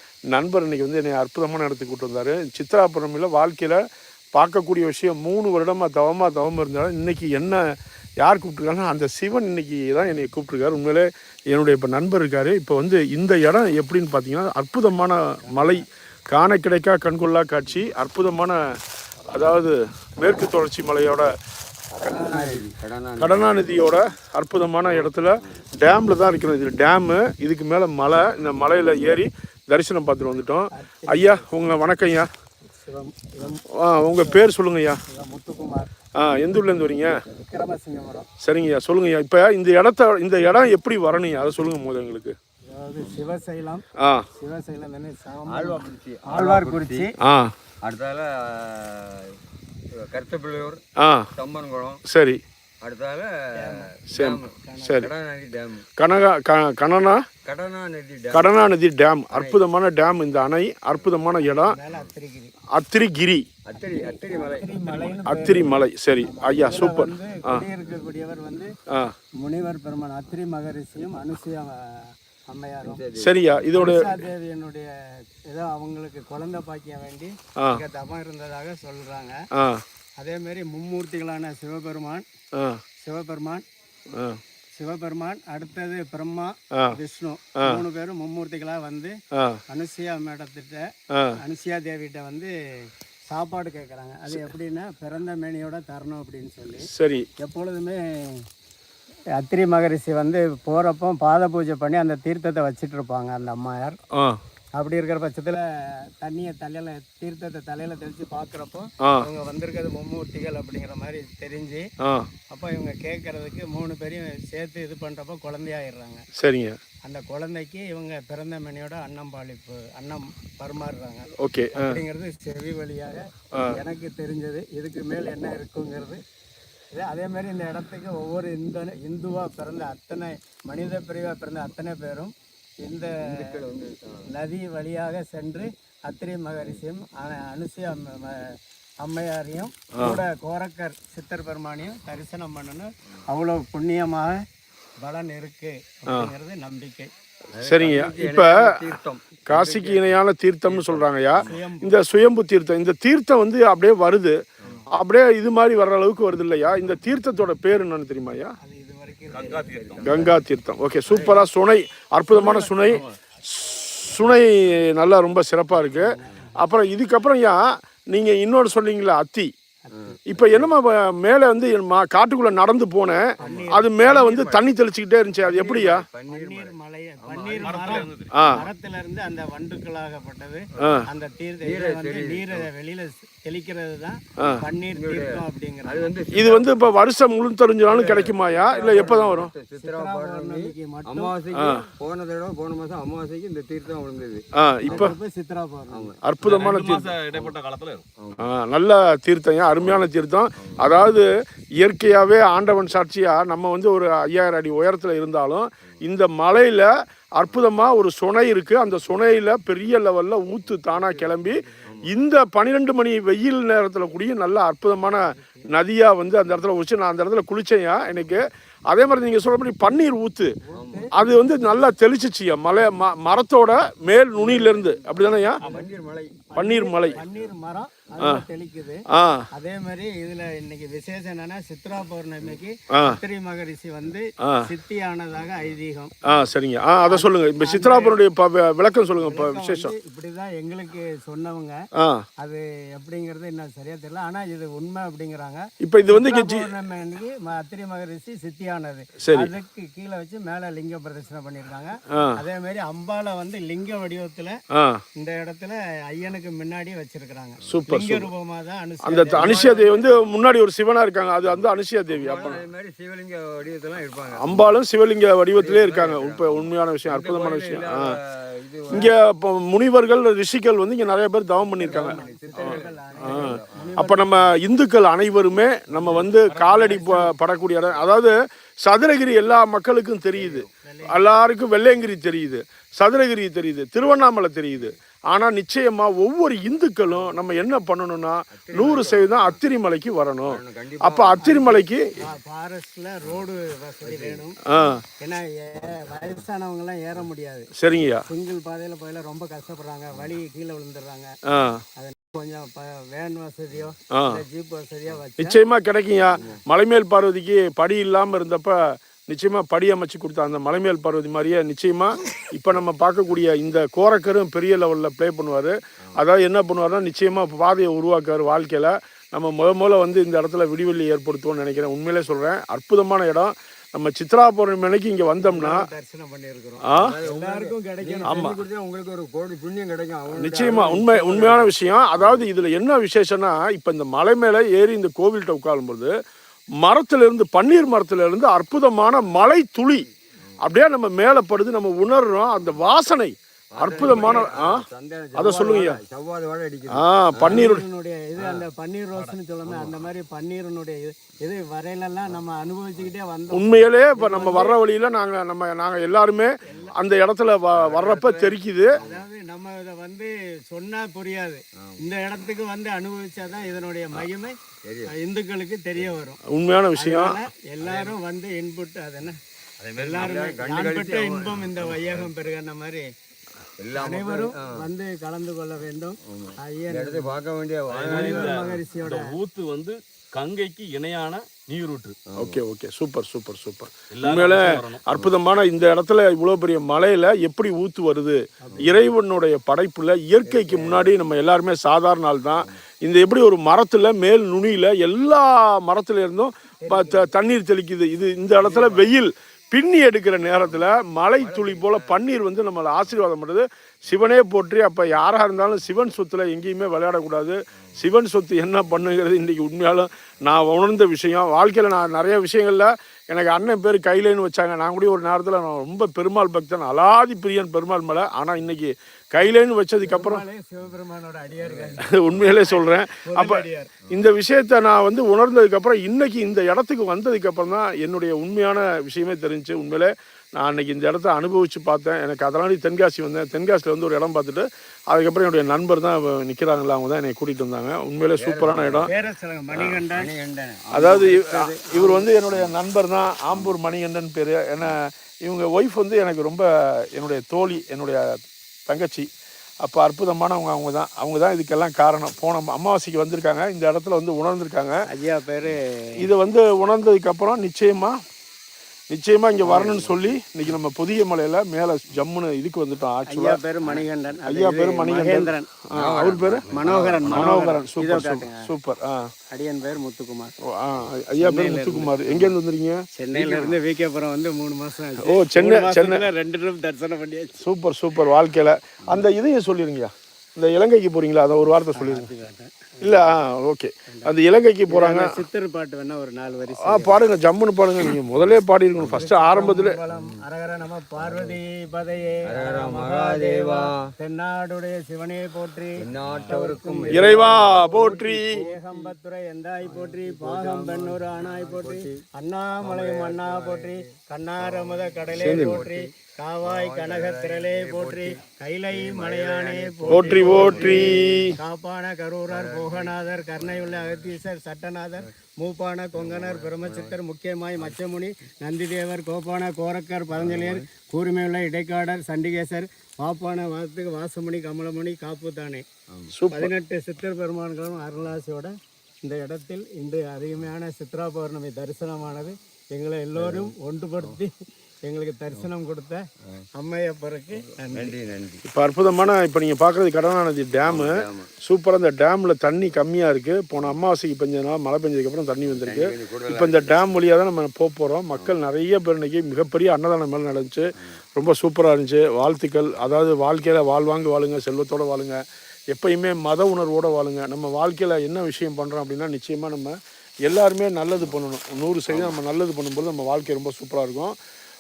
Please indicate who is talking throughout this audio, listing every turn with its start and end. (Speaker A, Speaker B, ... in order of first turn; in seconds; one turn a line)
Speaker A: 0.3-3.8
Speaker A: 4.3-7.6
Speaker A: 8.2-18.6
Speaker B: 15.4-15.8
Speaker A: 19.3-21.3
Speaker A: 22.0-22.5
Speaker C: 22.1-23.6
Speaker A: 23.2-32.3
Speaker C: 24.8-25.6
Speaker B: 30.7-31.7
Speaker B: 32.8-34.4
Speaker A: 33.7-35.0
Speaker B: 35.1-35.9
Speaker A: 36.1-37.1
Speaker B: 37.3-38.3
Speaker A: 38.4-42.4
Speaker B: 42.7-47.2
Speaker A: 44.0-44.3
Speaker C: 45.5-47.1
Speaker A: 47.2-47.5
Speaker C: 47.8-49.4
Speaker C: 49.9-50.8
Speaker A: 51.0-51.3
Speaker C: 51.3-52.0
Speaker A: 52.1-52.4
Speaker C: 52.8-55.9
Speaker B: 53.6-53.9
Speaker A: 54.1-55.1
Speaker B: 54.6-55.1
Speaker A: 56.0-57.2
Speaker C: 57.4-58.6
Speaker A: 58.3-61.8
Speaker C: 59.3-59.6
Speaker B: 61.4-62.5
Speaker A: 62.7-63.5
Speaker C: 63.6-65.2
Speaker B: 63.8-68.7
Speaker A: 65.2-67.7
Speaker B: 69.4-73.0
Speaker C: 72.8-73.8
Speaker A: 73.2-74.1
Speaker B: 73.7-74.9
Speaker B: 75.5-79.4
Speaker A: 77.6-77.8
Speaker A: 79.5-79.8
Speaker B: 80.2-82.2
Speaker A: 82.5-82.8
Speaker B: 83.0-83.6
Speaker A: 84.1-84.4
Speaker B: 84.8-89.2
Speaker A: 89.3-89.6
Speaker B: 89.7-92.5
Speaker B: 93.3-98.5
Speaker A: 96.8-97.3
Speaker B: 99.4-104.0
Speaker A: 104.1-104.4
Speaker B: 104.8-111.9
Speaker A: 109.0-109.3
Speaker A: 112.0-112.3
Speaker B: 112.5-116.3
Speaker A: 116.4-116.8
Speaker B: 117.0-126.2
Speaker A: 121.4-122.0
Speaker A: 123.5-123.8
Speaker B: 126.9-133.6
Speaker C: 133.2-134.3
Speaker B: 134.3-144.4
Speaker A: 139.9-140.2
Speaker B: 145.0-147.1
Speaker C: 147.6-151.5
Speaker A: 147.6-148.8
Speaker A: 149.5-154.4
Speaker B: 151.4-152.0
Speaker A: 154.9-158.6
Speaker B: 158.6-160.3
Speaker D: 159.3-160.2
Speaker C: 159.5-160.4
Speaker A: 160.0-167.6
Speaker B: 161.2-161.4
Speaker B: 162.3-163.0
Speaker C: 162.9-163.1
Speaker B: 165.7-166.5
Speaker A: 168.1-169.5
Speaker B: 169.8-170.2
Speaker C: 169.9-170.7
Speaker A: 170.3-176.1
Speaker B: 173.4-174.0
Speaker C: 173.4-174.7
Speaker B: 175.5-186.6
Speaker C: 175.5-178.1
Speaker D: 177.5-178.3
Speaker A: 178.3-178.7
Speaker A: 180.8-181.1
Speaker C: 181.6-182.7
Speaker A: 184.4-184.6
Speaker C: 184.9-186.6
Speaker A: 186.3-189.5
Speaker C: 187.9-195.1
Speaker B: 188.8-191.3
Speaker A: 191.5-191.9
Speaker A: 194.6-195.1
Speaker B: 194.9-196.1
Speaker C: 195.9-196.2
Speaker A: 196.2-197.2
Speaker D: 196.4-198.1
Speaker C: 198.2-198.4
Speaker A: 198.4-201.3
Speaker A: 201.8-220.6
Speaker B: 210.9-211.9
Speaker B: 215.0-215.7
Speaker B: 220.7-221.5
Speaker C: 220.7-221.1
Speaker A: 221.1-225.6
Speaker C: 224.3-227.5
Speaker B: 225.6-225.9
Speaker B: 226.5-229.0
Speaker A: 226.6-227.2
Speaker A: 229.1-229.4
Speaker B: 229.5-236.1
Speaker A: 232.9-233.2
Speaker A: 236.2-239.9
Speaker B: 237.1-238.2
Speaker B: 239.2-241.8
Speaker A: 242.0-242.2
Speaker B: 242.4-254.6
Speaker A: 245.8-246.7
Speaker A: 249.2-249.5
Speaker A: 252.1-252.4
Speaker A: 254.7-255.0
Speaker B: 255.2-260.1
Speaker A: 257.7-258.3
Speaker A: 259.0-262.6
Speaker C: 259.3-260.0
Speaker C: 261.4-264.8
Speaker A: 264.4-268.1
Speaker C: 265.5-269.1
Speaker A: 268.9-292.1
Speaker B: 271.6-274.6
Speaker C: 271.8-274.0
Speaker C: 276.0-276.2
Speaker B: 276.6-277.3
Speaker C: 277.9-278.3
Speaker C: 280.3-280.7
Speaker B: 280.8-281.3
Speaker C: 288.5-289.6
Speaker C: 290.4-291.4
Speaker B: 291.4-294.6
Speaker C: 294.0-295.0
Speaker A: 294.7-295.0
Speaker B: 295.2-297.7
Speaker C: 295.8-296.1
Speaker A: 297.8-298.3
Speaker B: 298.3-301.4
Speaker A: 301.5-301.8
Speaker B: 302.0-305.6
Speaker A: 304.1-304.4
Speaker A: 305.4-325.8
Speaker C: 306.4-306.6
Speaker B: 325.4-328.5
Speaker A: 326.8-327.2
Speaker C: 326.9-332.5
Speaker A: 328.3-328.6
Speaker A: 330.3-336.1
Speaker A: 336.8-340.1
Speaker A: 340.6-344.8
Speaker C: 343.7-347.7
Speaker B: 343.9-344.5
Speaker A: 345.4-346.0
Speaker A: 346.9-347.9
Speaker B: 347.4-354.8
Speaker C: 348.4-348.6
Speaker C: 349.6-350.1
Speaker A: 353.5-359.0
Speaker B: 356.6-356.9
Speaker C: 357.7-359.3
Speaker B: 359.0-364.6
Speaker C: 364.8-365.1
Speaker B: 365.1-366.4
Speaker A: 366.5-367.4
Speaker B: 366.9-369.4
Speaker C: 367.8-368.1
Speaker D: 369.9-370.3
Speaker B: 369.9-373.1
Speaker C: 370.1-372.3
Speaker C: 373.8-374.8
Speaker B: 373.9-377.4
Speaker C: 376.2-378.8
Speaker D: 377.9-382.2
Speaker B: 378.0-379.4
Speaker C: 382.3-382.6
Speaker A: 382.4-420.4
Speaker D: 384.1-385.0
Speaker B: 388.6-389.0
Speaker C: 388.7-389.0
Speaker B: 390.4-391.1
Speaker B: 396.8-397.3
Speaker B: 398.6-399.1
Speaker C: 401.4-402.3
Speaker B: 420.0-424.0
Speaker C: 421.6-422.0
Speaker A: 422.0-439.1
Speaker C: 438.4-439.1
Speaker B: 439.0-440.3
Speaker A: 439.7-440.0
Speaker C: 440.1-441.6
Speaker A: 440.9-449.3
Speaker B: 440.9-442.3
Speaker C: 442.4-442.8
Speaker C: 443.5-443.8
Speaker A: 449.8-455.0
Speaker B: 455.1-456.3
Speaker A: 456.2-458.2
Speaker A: 459.1-463.6
Speaker B: 459.6-460.2
Speaker B: 463.3-465.7
Speaker A: 464.5-466.7
Speaker C: 465.9-467.5
Speaker B: 466.7-468.6
Speaker A: 467.3-469.3
Speaker B: 469.5-470.5
Speaker A: 470.7-473.7
Speaker B: 471.4-472.5
Speaker B: 473.2-477.6
Speaker A: 475.2-476.3
Speaker A: 477.6-482.3
Speaker B: 481.9-483.4
Speaker A: 483.0-485.3
Speaker B: 484.9-487.2
Speaker A: 486.8-490.0
Speaker C: 489.0-489.3
Speaker B: 489.1-525.9
Speaker C: 490.1-490.4
Speaker C: 491.2-491.6
Speaker C: 492.4-494.1
Speaker C: 496.0-499.1
Speaker A: 497.1-498.6
Speaker C: 499.8-502.2
Speaker C: 502.8-504.0
Speaker C: 504.6-506.1
Speaker A: 505.4-505.8
Speaker C: 506.6-511.5
Speaker A: 510.1-511.6
Speaker C: 512.5-514.2
Speaker C: 516.1-517.1
Speaker C: 520.4-520.8
Speaker A: 526.3-526.7
Speaker B: 526.5-528.7
Speaker B: 529.2-534.5
Speaker C: 533.4-533.7
Speaker B: 535.0-536.2
Speaker B: 536.8-538.1
Speaker C: 537.8-538.6
Speaker A: 538.6-555.4
Speaker C: 540.9-541.5
Speaker C: 545.6-547.2
Speaker A: 555.9-564.4
Speaker C: 562.1-562.4